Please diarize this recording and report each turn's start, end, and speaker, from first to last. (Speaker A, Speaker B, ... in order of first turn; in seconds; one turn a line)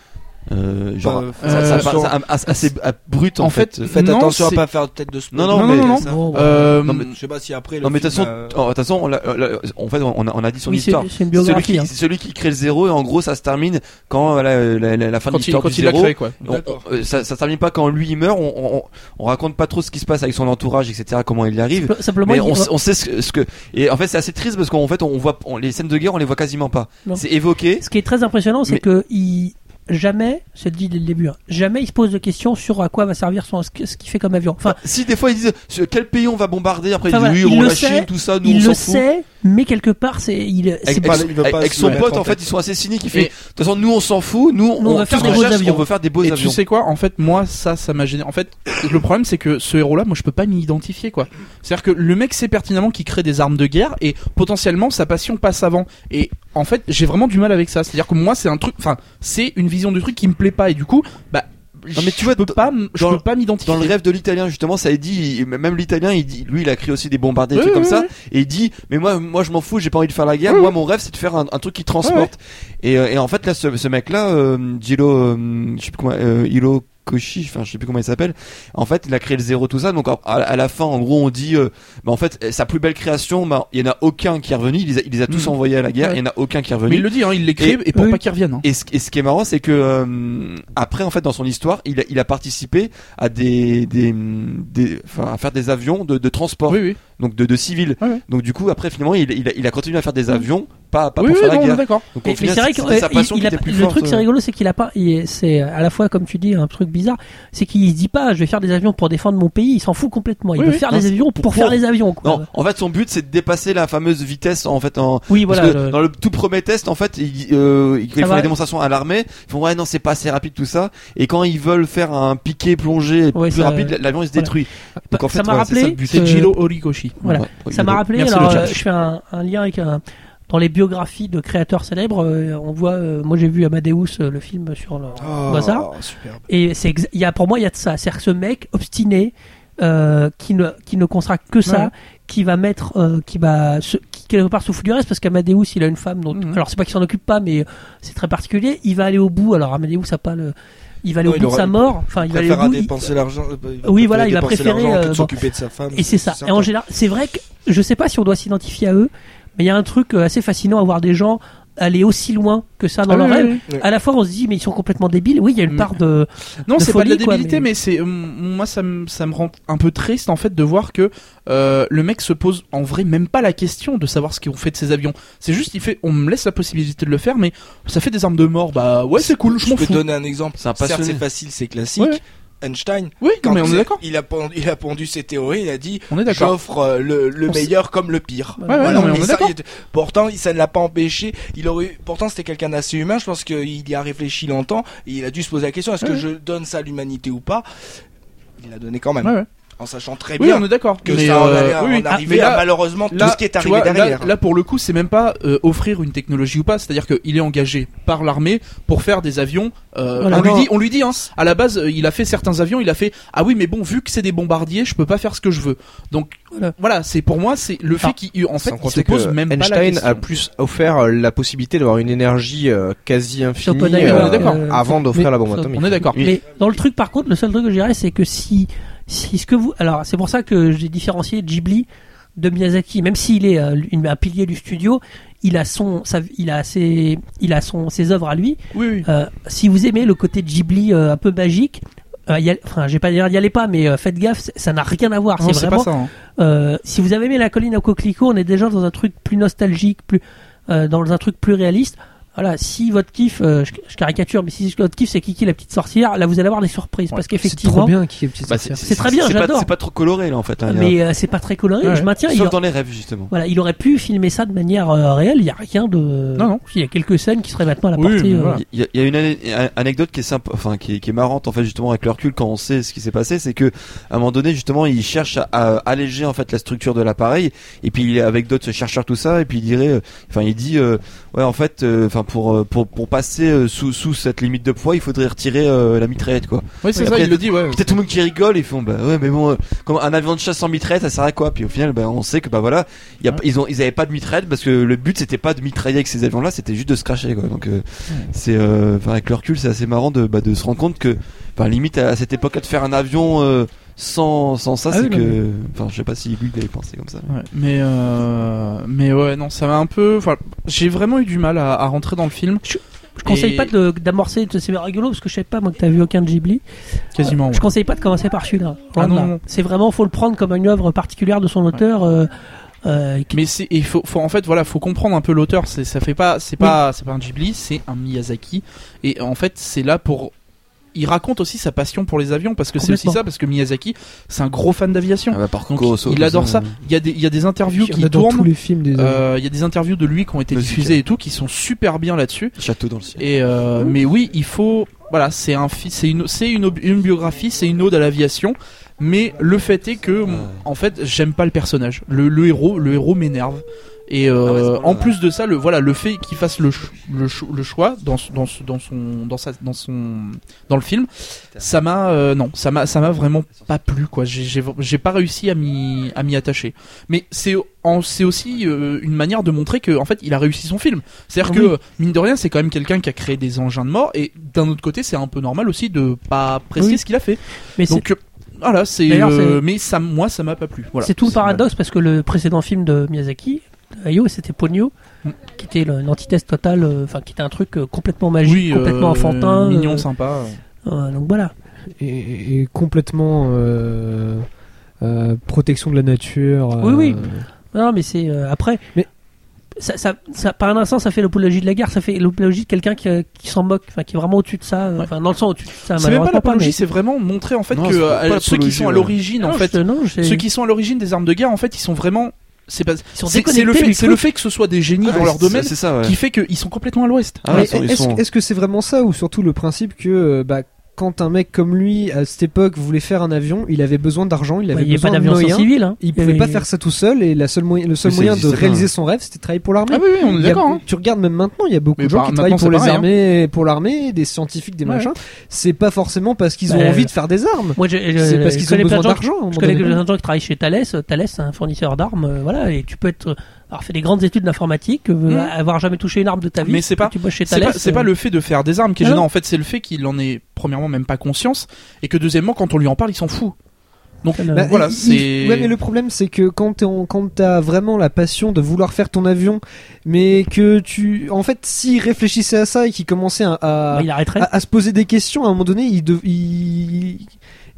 Speaker A: 0.5-4.0
Speaker B: 1.0-2.2
Speaker C: 1.4-2.0
Speaker C: 3.4-4.6
Speaker B: 3.9-8.6
Speaker A: 5.3-6.1
Speaker C: 5.5-7.1
Speaker D: 6.0-6.7
Speaker A: 6.8-7.1
Speaker A: 7.8-27.8
Speaker D: 10.7-11.9
Speaker C: 15.3-16.4
Speaker B: 16.4-16.8
Speaker D: 21.8-22.7
Speaker D: 27.8-34.8
Speaker A: 34.6-39.0
Speaker D: 37.1-41.3
Speaker A: 40.9-46.6
Speaker B: 41.0-42.5
Speaker D: 44.8-45.9
Speaker C: 45.1-45.5
Speaker C: 46.2-63.9
Speaker A: 61.9-87.9
Speaker C: 67.5-68.1
Speaker C: 70.5-70.7
Speaker C: 72.0-72.3
Speaker C: 85.3-86.2
Speaker C: 86.9-88.7
Speaker A: 88.6-104.2
Speaker C: 96.7-97.0
Speaker C: 101.2-102.1
Speaker D: 102.2-112.5
Speaker C: 110.6-110.8
Speaker A: 110.9-126.3
Speaker D: 115.3-116.0
Speaker D: 118.2-118.5
Speaker D: 123.3-124.5
Speaker D: 125.1-126.5
Speaker C: 126.1-127.2
Speaker A: 127.2-128.8
Speaker D: 127.2-135.9
Speaker C: 128.2-128.7
Speaker B: 135.2-136.4
Speaker D: 136.5-152.9
Speaker C: 141.7-141.9
Speaker C: 146.3-146.6
Speaker B: 151.2-156.7
Speaker D: 153.8-155.3
Speaker D: 155.9-167.7
Speaker C: 163.1-163.6
Speaker C: 165.7-165.9
Speaker C: 166.7-180.0
Speaker B: 179.2-197.6
Speaker A: 180.6-181.2
Speaker C: 183.2-184.0
Speaker C: 186.1-186.5
Speaker D: 188.6-189.1
Speaker C: 188.7-189.5
Speaker B: 198.6-204.3
Speaker C: 200.4-220.2
Speaker D: 202.1-202.4
Speaker D: 210.2-210.6
Speaker A: 210.3-210.7
Speaker E: 218.6-226.0
Speaker D: 223.6-257.9
Speaker C: 224.0-224.6
Speaker C: 225.7-226.2
Speaker A: 226.1-226.4
Speaker C: 238.7-239.1
Speaker C: 245.4-246.1
Speaker F: 257.4-258.8
Speaker A: 258.4-260.9
Speaker D: 258.8-259.7
Speaker D: 260.6-262.6
Speaker C: 261.8-262.1
Speaker A: 262.2-263.3
Speaker D: 263.3-268.6
Speaker C: 268.0-268.6
Speaker A: 268.5-307.3
Speaker C: 286.8-288.0
Speaker D: 304.9-305.4
Speaker C: 307.3-312.6
Speaker D: 312.6-316.6
Speaker C: 313.2-313.7
Speaker C: 317.1-317.6
Speaker D: 317.2-322.3
Speaker C: 319.0-319.4
Speaker D: 322.8-323.4
Speaker C: 323.3-330.3
Speaker C: 330.9-342.6
Speaker D: 332.8-333.2
Speaker A: 335.3-336.7
Speaker F: 337.8-339.2
Speaker A: 340.5-341.0
Speaker A: 342.6-343.2
Speaker C: 343.2-381.6
Speaker A: 350.3-350.6
Speaker A: 354.4-355.1
Speaker D: 371.4-371.7
Speaker D: 377.8-378.1
Speaker D: 379.1-379.6
Speaker D: 381.0-384.9
Speaker D: 385.5-390.1
Speaker C: 388.4-390.6
Speaker D: 390.8-391.5
Speaker F: 392.0-394.5
Speaker F: 395.0-397.4
Speaker D: 396.8-398.8
Speaker D: 399.8-406.8
Speaker C: 405.9-417.7
Speaker A: 407.7-409.1
Speaker D: 409.4-410.4
Speaker D: 413.1-414.2
Speaker A: 415.1-416.1
Speaker A: 417.4-418.2
Speaker F: 417.5-440.0
Speaker D: 424.7-426.6
Speaker A: 428.0-428.9
Speaker C: 429.9-430.8
Speaker C: 432.0-433.1
Speaker D: 436.7-437.1
Speaker D: 437.8-448.1
Speaker C: 445.3-445.5
Speaker C: 446.6-453.5
Speaker C: 454.2-455.7
Speaker D: 454.3-454.7
Speaker F: 454.5-467.3
Speaker D: 463.9-464.5